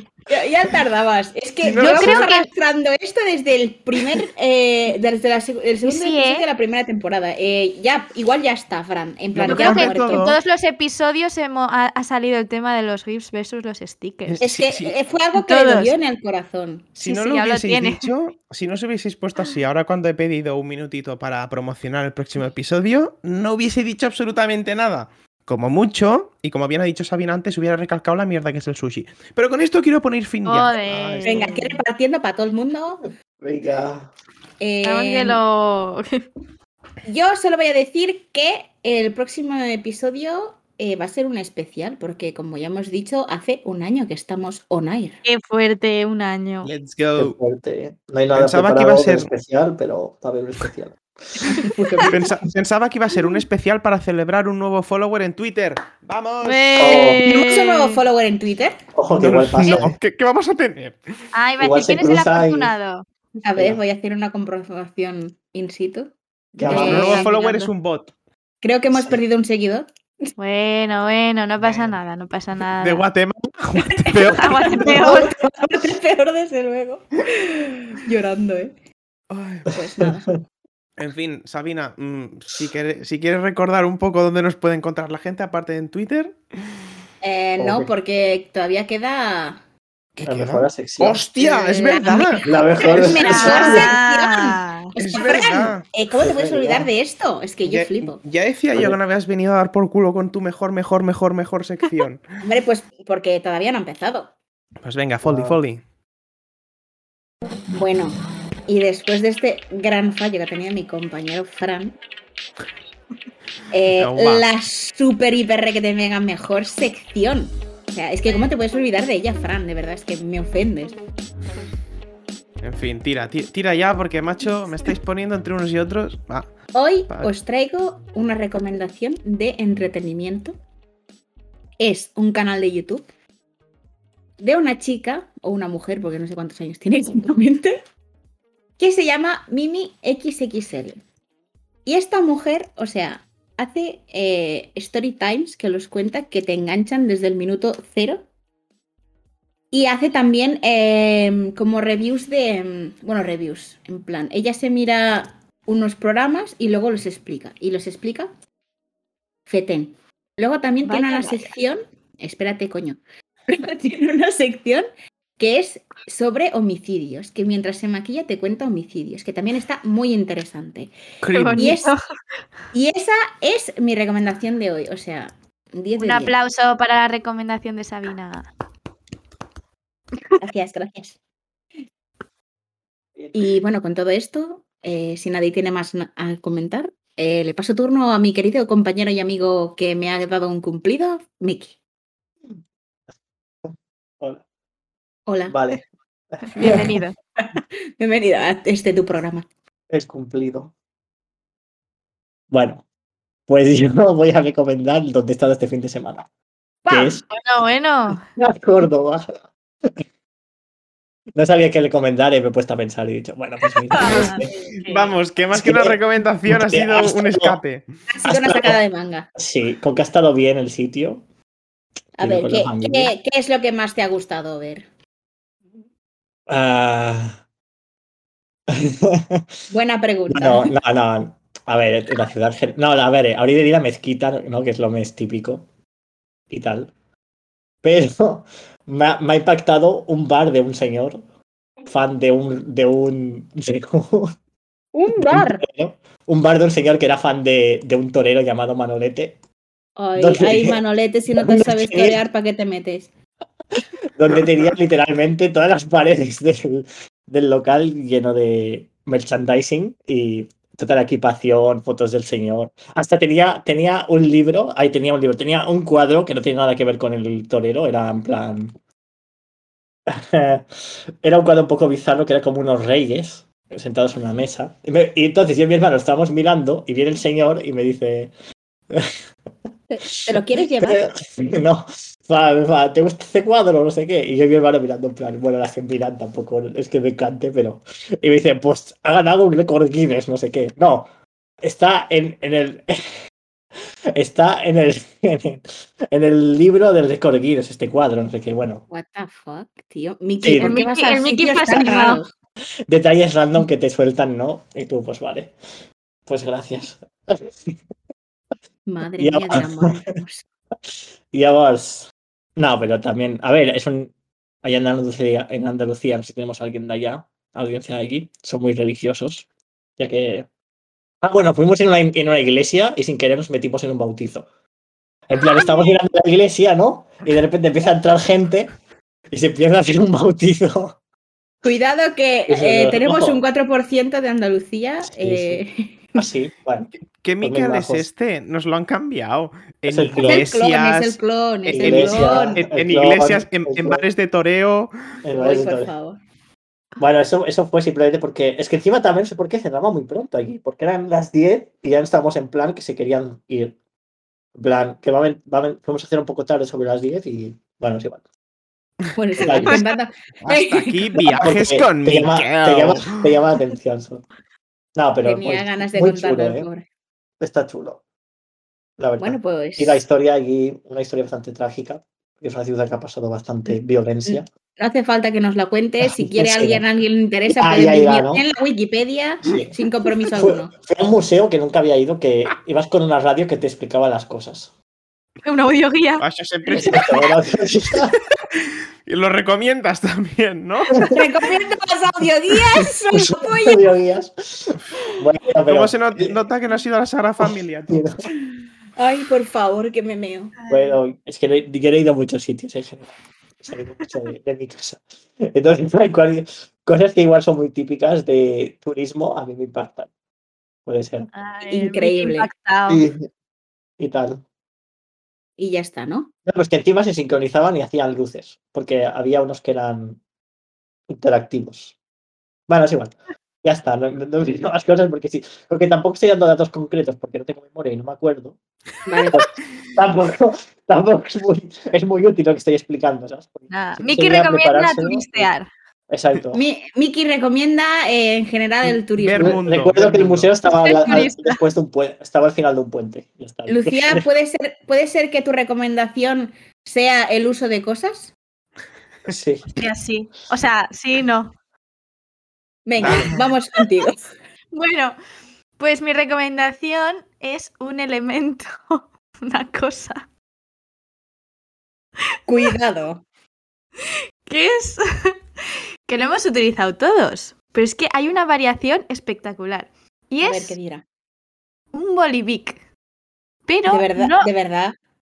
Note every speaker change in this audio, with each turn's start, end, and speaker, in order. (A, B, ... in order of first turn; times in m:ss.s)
0:00.3-0:10.3 A
0:01.6-0:02.3 B
0:01.7-0:02.5 C
0:05.8-0:06.4 C
0:09.3-0:10.4 B
0:09.4-0:14.4 C
0:14.2-0:14.9 B
0:14.4-0:17.0 A
0:15.4-0:15.9 C
0:17.0-0:18.1 C
0:17.0-0:31.5 B
0:30.4-0:31.8 C
0:31.2-0:33.1 A
0:33.4-0:34.1 D
0:34.6-0:35.4 A
0:34.8-0:36.2 C
0:37.0-0:45.2 A
0:45.2-0:46.7 C
0:46.6-0:47.4 B
0:47.2-0:52.1 D
0:48.3-0:49.3 B
0:51.5-0:52.2 A
0:52.0-0:57.1 B
0:56.4-0:58.0 C
0:56.8-0:57.2 D
0:57.2-0:58.8 A
0:58.9-0:59.9 D
0:59.1-1:01.0 B
1:01.3-1:03.0 C
1:01.6-1:02.7 D
1:03.4-1:07.3 A
1:03.5-1:03.8 D
1:06.5-1:07.2 D
1:06.6-1:08.1 B
1:06.7-1:07.7 C
1:08.6-1:09.9 A
1:10.4-1:13.0 C
1:11.6-1:11.9 B
1:12.8-1:15.0 B
1:14.0-1:18.7 A
1:14.1-1:15.3 C
1:19.3-1:19.7 B
1:19.7-1:20.3 A
1:21.0-1:26.4 B
1:27.2-1:29.6 A
1:27.6-1:27.9 D
1:30.2-1:33.8 B
1:30.2-1:31.2 D
1:31.4-1:38.2 A
1:32.4-1:33.9 D
1:32.9-1:34.9 C
1:35.0-1:35.8 B
1:36.1-1:36.9 D
1:37.6-1:42.2 B
1:42.4-1:44.3 A
1:44.8-1:45.8 B
1:45.2-1:45.6 D
1:47.7-1:48.1 A
1:48.7-1:52.0 A
1:53.7-2:01.0 A
1:54.0-1:54.5 B
2:02.6-2:06.5 B
2:06.7-2:10.6 A
2:11.8-2:13.0 A
2:14.4-2:17.8 A
2:18.8-2:21.0 A
2:21.8-2:28.2 A
2:29.7-2:38.3 A
2:39.4-2:44.9 A
2:40.8-2:41.5 C
2:45.4-2:50.9 A
2:51.2-2:51.7 B
2:51.3-2:52.0 C
2:51.6-2:51.9 A
2:52.7-2:56.3 A
2:56.0-2:58.5 C
3:00.4-3:01.2 A
3:03.3-3:11.7 A
3:15.3-3:15.8 A
3:15.5-3:15.8 D
3:16.3-3:17.0 D
3:16.5-3:17.1 C
3:16.6-3:16.9 A
3:17.4-3:19.4 A
3:19.9-3:20.7 D
3:22.5-3:22.8 D
3:23.5-3:26.3 D
3:26.8-3:27.2 A
3:26.9-3:27.2 D
3:27.3-3:28.2 C
3:28.4-3:29.9 D
3:31.3-3:34.5 D
3:33.9-3:35.2 C
3:34.8-3:37.8 B
3:35.5-3:37.6 D
3:38.1-3:39.3 A
3:38.2-3:38.8 D
3:39.4-3:41.2 D
3:42.2-3:44.8 A
3:42.2-3:43.1 D
3:46.5-3:47.4 D
3:48.7-3:49.4 D
3:49.7-3:50.7 A
3:50.3-3:55.6 D
3:56.5-3:56.9 D
3:57.8-4:01.2 D
4:01.8-4:04.4 D
4:04.9-4:05.6 A
4:05.1-4:09.4 D
4:10.0-4:13.1 A
4:10.2-4:10.8 D
4:11.4-4:12.2 D
4:14.1-4:28.7 D
4:30.1-4:38.3 D
4:39.9-4:41.1 A
4:40.2-4:51.1 D
4:51.6-4:53.0 D
4:54.1-4:58.8 D
4:58.9-5:02.3 A
5:00.4-5:00.8 D
5:00.6-5:02.2 C
5:02.9-5:05.5 D
5:06.3-5:07.7 D
5:08.8-5:10.5 A
5:09.2-5:09.9 D
5:11.3-5:14.1 D
5:14.6-5:19.5 D
5:20.0-5:20.5 D
5:21.2-5:24.5 D
5:25.3-5:28.7 D
5:29.3-5:31.0 D
5:31.6-5:36.2 A
5:32.5-5:33.4 D
5:35.0-5:35.6 D
5:36.2-5:38.1 D
5:37.1-5:44.9 B
5:39.9-5:40.4 D
5:40.2-5:42.6 A
5:41.7-5:44.0 D
5:45.2-5:45.9 D
5:45.3-5:46.2 A
5:47.0-5:53.8 D
5:54.5-5:58.2 D
5:59.1-6:01.0 A
5:59.4-5:59.8 D
6:00.4-6:03.3 B
6:01.2-6:04.2 D
6:05.0-6:06.7 D
6:05.2-6:06.8 A
6:07.4-6:08.0 D
6:09.0-6:14.4 D
6:09.2-6:10.0 A
6:14.2-6:20.7 A
6:16.0-6:16.8 D
6:17.5-6:18.4 D
6:19.4-6:19.8 D
6:20.3-6:24.7 D
6:25.4-6:26.2 C
6:26.2-6:27.2 B
6:26.7-6:28.2 D
6:26.8-6:27.2 C
6:29.0-6:31.2 B
6:31.1-6:33.8 A
6:33.1-6:36.3 D
6:35.7-6:38.0 B
6:37.4-6:38.1 D
6:39.0-6:40.6 A
6:40.6-6:41.0 C
6:40.7-6:50.1 D
6:50.8-6:51.3 D
6:51.3-6:53.0 C
6:51.7-6:52.5 A
6:52.9-6:53.2 D
6:54.0-6:54.4 D
6:55.6-6:56.3 A
6:56.4-7:00.2 D
7:01.1-7:01.9 D
7:02.7-7:08.6 D
7:09.0-7:09.4 A
7:09.3-7:15.5 D
7:13.7-7:15.7 C
7:16.1-7:16.6 D
7:16.5-7:19.6 A
7:18.9-7:24.2 D
7:19.2-7:20.5 B
7:20.6-7:21.6 C
7:23.7-7:28.3 A
7:29.3-7:29.7 D
7:29.8-7:31.5 C
7:32.8-7:34.2 A
7:33.0-7:33.3 B
7:34.7-7:35.2 C
7:35.8-7:40.2 C
7:42.5-7:43.2 A
7:44.5-7:45.4 C
7:46.1-7:50.8 C
7:50.4-7:51.0 A
7:51.9-7:52.8 C
7:53.7-7:54.5 C
7:53.9-7:54.9 A